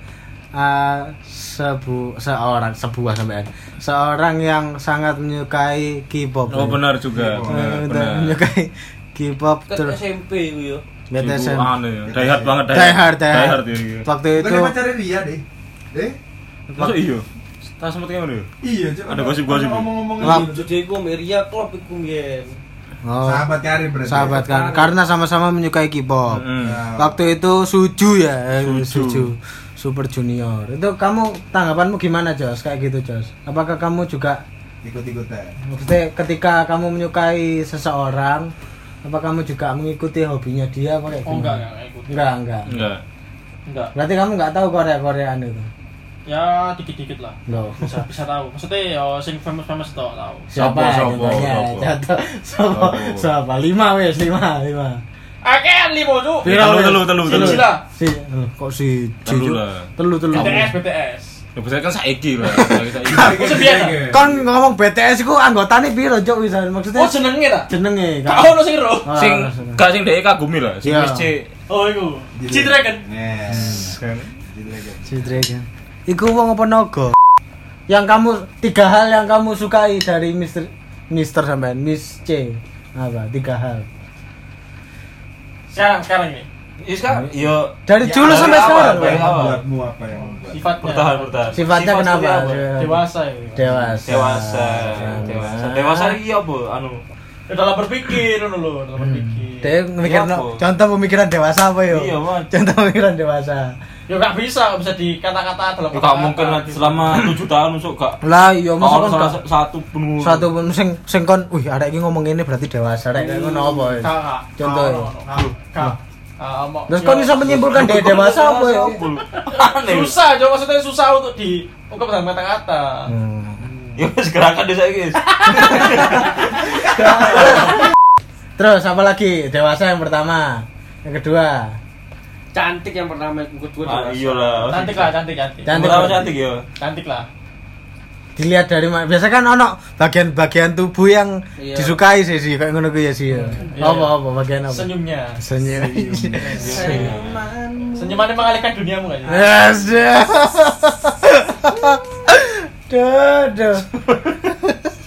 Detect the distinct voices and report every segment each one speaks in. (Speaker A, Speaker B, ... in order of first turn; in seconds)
Speaker A: 0.5-6.8, 7.4-9.9, 11.1-11.7, 12.7-14.7, 20.2-20.5, 23.0-23.5, 24.0-26.4, 27.0-34.4, 35.7-38.5, 39.0-42.7, 43.9-45.7, 47.5-48.0, 50.5-55.0, 56.4-60.7, 62.5-63.4, 64.1-67.2, 67.7-69.8, 70.8-71.3, 73.6-73.9, 75.1-77.2, 77.9-83.9, 87.9-89.6, 91.5-96.2, 99.0-103.8, 108.2-109.4, 110.2-115.1, 116.9-119.0, 123.1-123.6, 125.8-126.2, 126.9-127.7, 128.6-131.8, 135.6-136.4, 138.3-147.1, 149.3-153.9
Speaker B: 6.5-8.3, 11.2-14.1, 16.7-18.5, 19.1-19.9, 26.3-26.8, 28.6-29.3, 42.7-43.0, 50.5-51.9, 52.7-53.3, 56.4-57.7, 59.2-60.6, 61.5-63.7, 69.2-71.5, 86.8-89.6, 90.8-92.7, 94.0-97.0, 100.0-100.6, 101.9-102.5, 105.9-108.2, 108.8-110.5, 117.4-120.1, 124.0-127.7, 133.8-135.2, 135.7-136.6, 145.9-147.4
Speaker C: 7.1-7.8, 12.1-12.5, 14.3-15.4, 18.6-20.7, 23.2-24.4, 26.6-27.2, 34.8-35.5, 63.0-64.5, 72.4-75.3, 88.2-90.8
Speaker D: 9.7-10.8, 20.2-22.6, 24.4-24.9, 132.5-134.9, 141.6-142.0, 146.5-148.3
Speaker E: 41.2-42.2, 43.7-43.9, 46.3-50.5, 55.4-56.6, 57.2-57.8, 60.3-61.4, 63.3-64.0, 66.9-67.7, 68.2-69.1, 71.7-73.0, 85.7-86.5, 90.1-91.4, 92.8-93.6, 97.5-99.7, 104.1-107.3, 113.9-117.6, 119.4-123.1, 123.7-124.0, 134.7-135.9, 136.8-137.3, 143.4-145.4, 146.4-146.8, 147.9-149.5